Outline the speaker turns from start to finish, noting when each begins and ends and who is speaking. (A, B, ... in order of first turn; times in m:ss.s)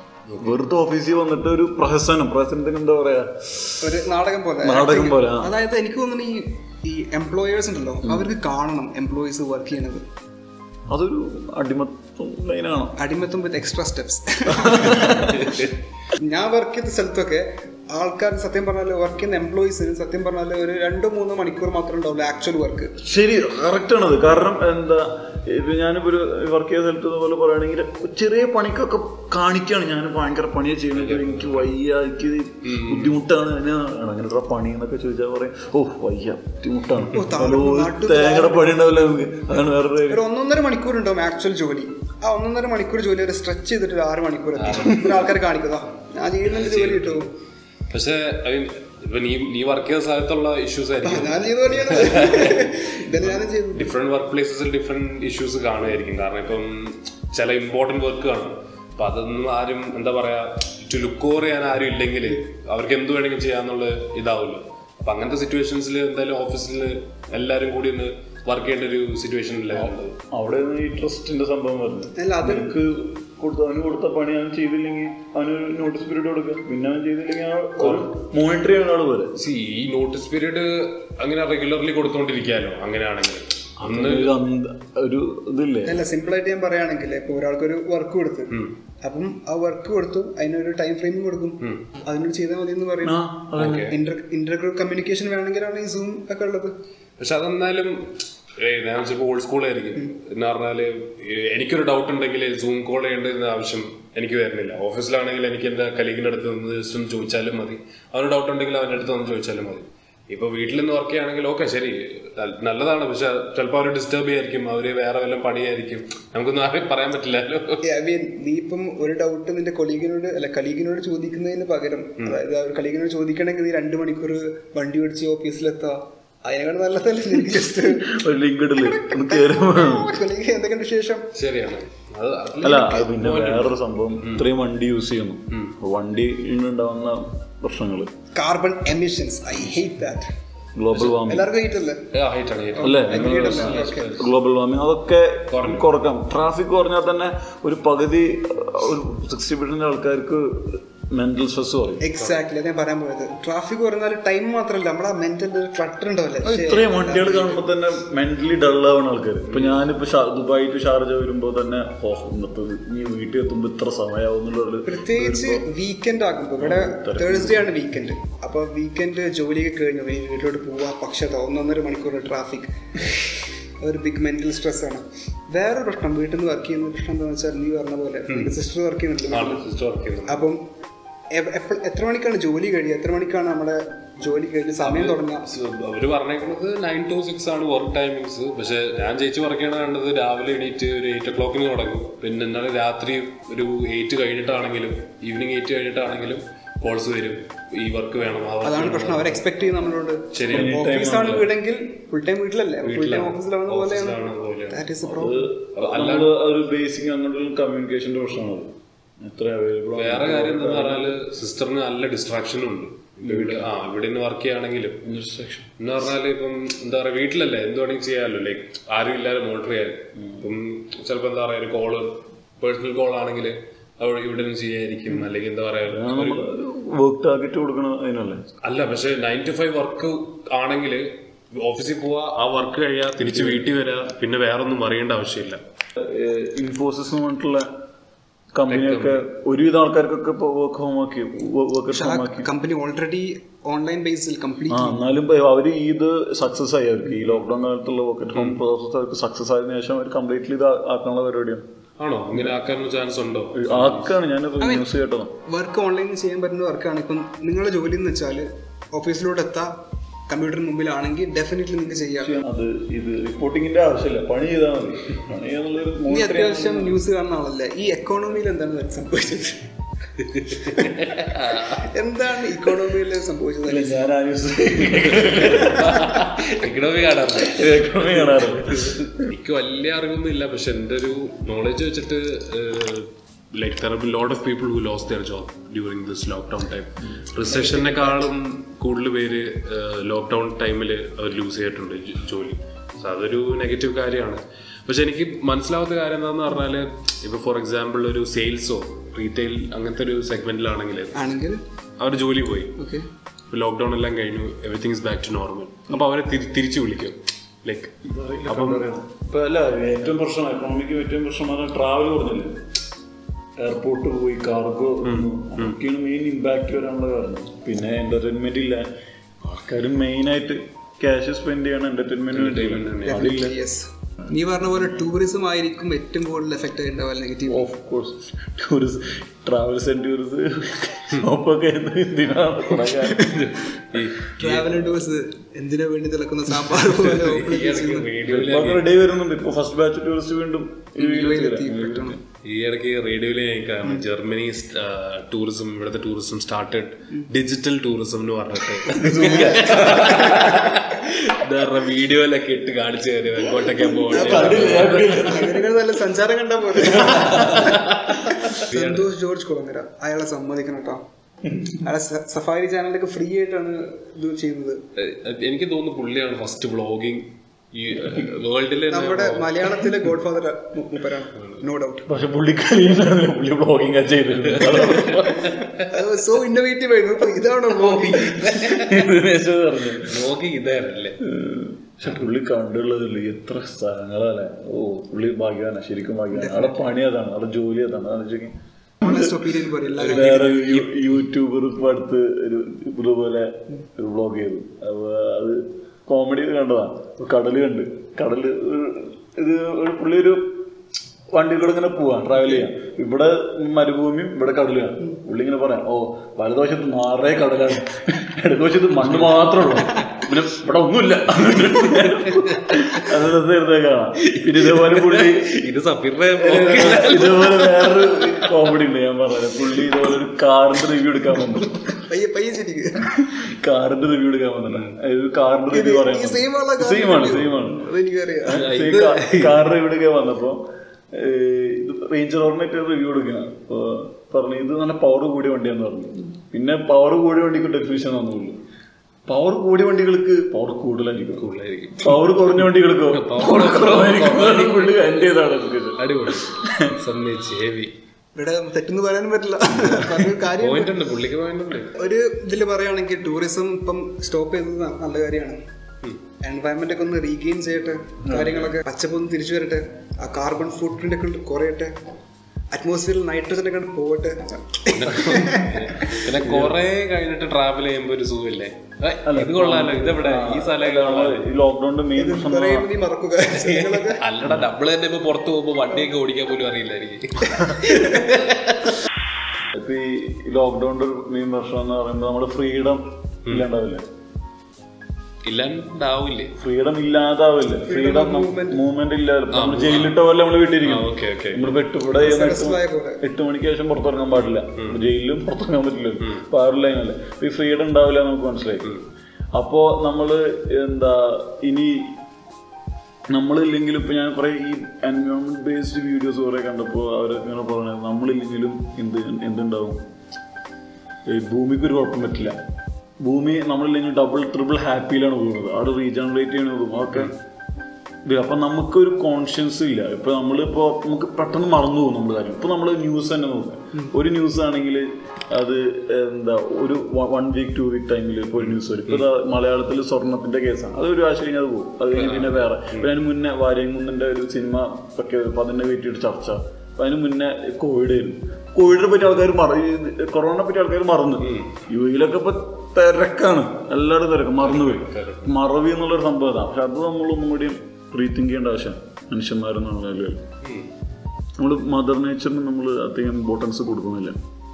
0:00.3-0:00.5 A
0:00.4-0:03.9 B
0:03.8-0:10.0 C
0:04.6-0:05.5 B
0:10.9-0:13.0 B
0:13.0-0:15.6 C
0:14.5-0:15.5 B
0:15.0-0:15.8 A
0:16.2-0:22.9 C
0:23.0-0:40.2 B
0:31.0-0:31.7 A
0:32.6-0:33.1 A
0:37.1-0:38.7 C
0:40.1-0:47.3 C
0:44.6-0:45.1 A
0:46.4-0:47.3 A
0:47.9-1:10.1 A
0:51.0-0:53.9 C
1:09.7-1:19.4 B
1:12.2-1:12.7 C
1:17.8-1:18.1 A
1:19.4-1:24.3 A
1:23.8-1:26.0 B
1:25.8-1:36.8 C
1:33.0-1:33.9 B
1:33.6-1:34.0 A
1:37.2-1:57.8 A
1:57.8-2:08.1 C
2:07.4-2:10.1 B
2:08.8-2:11.3 C
2:11.3-2:14.4 A
2:12.6-2:18.1 B
2:18.3-2:20.3 C
2:20.7-2:21.5 B
2:21.2-2:22.0 C
2:22.1-2:24.3 A
2:22.8-2:24.2 C
2:22.8-2:32.1 B
2:25.5-2:25.9 A
2:32.0-2:37.6 C
2:36.4-2:45.7 B
2:39.5-2:39.8 A
2:44.8-2:52.7 C
2:46.6-2:47.8 B
2:53.8-2:59.7 C
2:58.3-2:58.5 A
2:59.3-3:00.4 A
3:00.3-3:00.6 C
3:01.3-3:05.4 C
3:04.8-3:19.4 A
3:18.6-3:25.4 C
3:20.3-3:20.8 A
3:20.5-3:21.5 B
3:22.8-3:24.8 A
3:25.0-3:31.2 B
3:25.8-3:26.3 A
3:29.9-3:35.0 A
3:33.3-3:33.7 B
3:35.0-3:35.7 B
3:35.8-3:46.5 A
3:40.2-3:40.4 B
3:45.8-3:48.4 B
3:48.6-3:55.6 A
3:53.2-3:53.7 B
3:56.0-3:57.7 B
3:58.5-4:02.5 B
3:58.7-3:59.2 A
4:01.9-4:05.0 C
4:04.7-4:11.6 B
4:08.3-4:08.6 A
4:12.0-4:14.1 A
4:13.5-4:15.3 B
4:14.6-4:14.9 C
4:15.4-4:19.7 C
4:20.3-4:22.3 C
4:22.2-4:27.0 B
4:26.1-4:29.7 C
4:30.2-4:31.9 A
4:30.6-4:30.9 C
4:31.6-4:34.0 C
4:33.6-4:36.4 B
4:35.2-5:01.3 A
4:37.4-4:39.3 B
4:47.0-4:47.3 B
4:47.5-4:48.2 C
5:01.1-5:01.6 C
5:02.0-5:02.8 A
5:02.8-5:03.1 C
5:03.5-5:07.9 A
5:08.0-5:12.6 B
5:08.5-5:08.9 A
5:13.6-5:18.9 B
5:15.0-5:15.8 A
5:19.4-5:23.5 B
5:22.3-5:23.3 A
5:23.0-5:27.7 C
5:27.4-5:33.3 B
5:32.7-5:34.8 A
5:33.2-5:33.5 C
5:34.3-5:38.1 C
5:36.8-5:38.8 A
5:38.2-5:42.2 B
5:41.0-5:42.2 C
5:42.4-5:55.1 A
5:48.9-5:50.7 B
5:48.9-5:50.5 C
5:54.0-6:01.0 C
5:54.0-5:55.8 B
5:56.8-5:57.8 B
5:57.0-5:59.1 A
6:01.8-6:04.8 C
6:05.0-6:09.8 A
6:08.9-6:12.1 C
6:12.1-6:15.6 B
6:14.4-6:15.9 A
6:15.9-6:18.5 C
6:17.8-6:19.1 A
6:18.4-6:20.3 B
6:20.0-6:21.2 A
6:21.2-6:40.7 B
6:26.3-6:26.8 C
6:29.0-6:30.7 C
6:41.3-6:55.7 B
6:49.0-6:50.4 A
6:51.8-6:53.2 A
6:54.2-6:58.5 A
6:56.4-7:01.9 B
7:01.9-7:03.1 C
7:03.1-7:07.9 B
7:04.7-7:05.0 A
7:05.7-7:08.7 C
7:08.4-7:18.6 B
7:08.5-7:09.6 A
7:19.3-7:27.0 B
7:21.4-7:22.2 A
7:23.1-7:25.2 A
7:25.9-7:27.9 A
7:28.4-7:31.0 C
7:29.7-7:30.4 B
7:30.6-7:31.9 A
7:31.9-7:35.6 C
7:36.4-7:41.9 C
7:38.2-7:38.7 B
7:42.7-7:46.2 C
7:44.9-7:51.4 A
7:46.3-7:46.8 B
7:49.2-7:52.9 B
7:52.2-7:54.2 C
7:53.5-7:59.0 A
7:57.6-7:58.2 C
7:59.7-8:04.0 B
8:05.4-8:06.5 A
8:06.6-8:18.9 B
8:07.8-8:08.8 C
8:09.5-8:10.1 A
8:10.8-8:11.6 A
8:12.1-8:13.2 C
8:14.4-8:15.0 A
8:19.5-8:22.2 B
8:23.3-8:30.0 B
8:31.2-8:32.6 B
8:33.2-8:37.3 B
8:38.2-9:10.4 B
8:48.7-8:49.2 A
8:52.1-8:53.1 A
9:01.4-9:01.7 A
9:04.6-9:05.5 A
9:10.6-9:10.9 A
9:11.6-9:14.4 B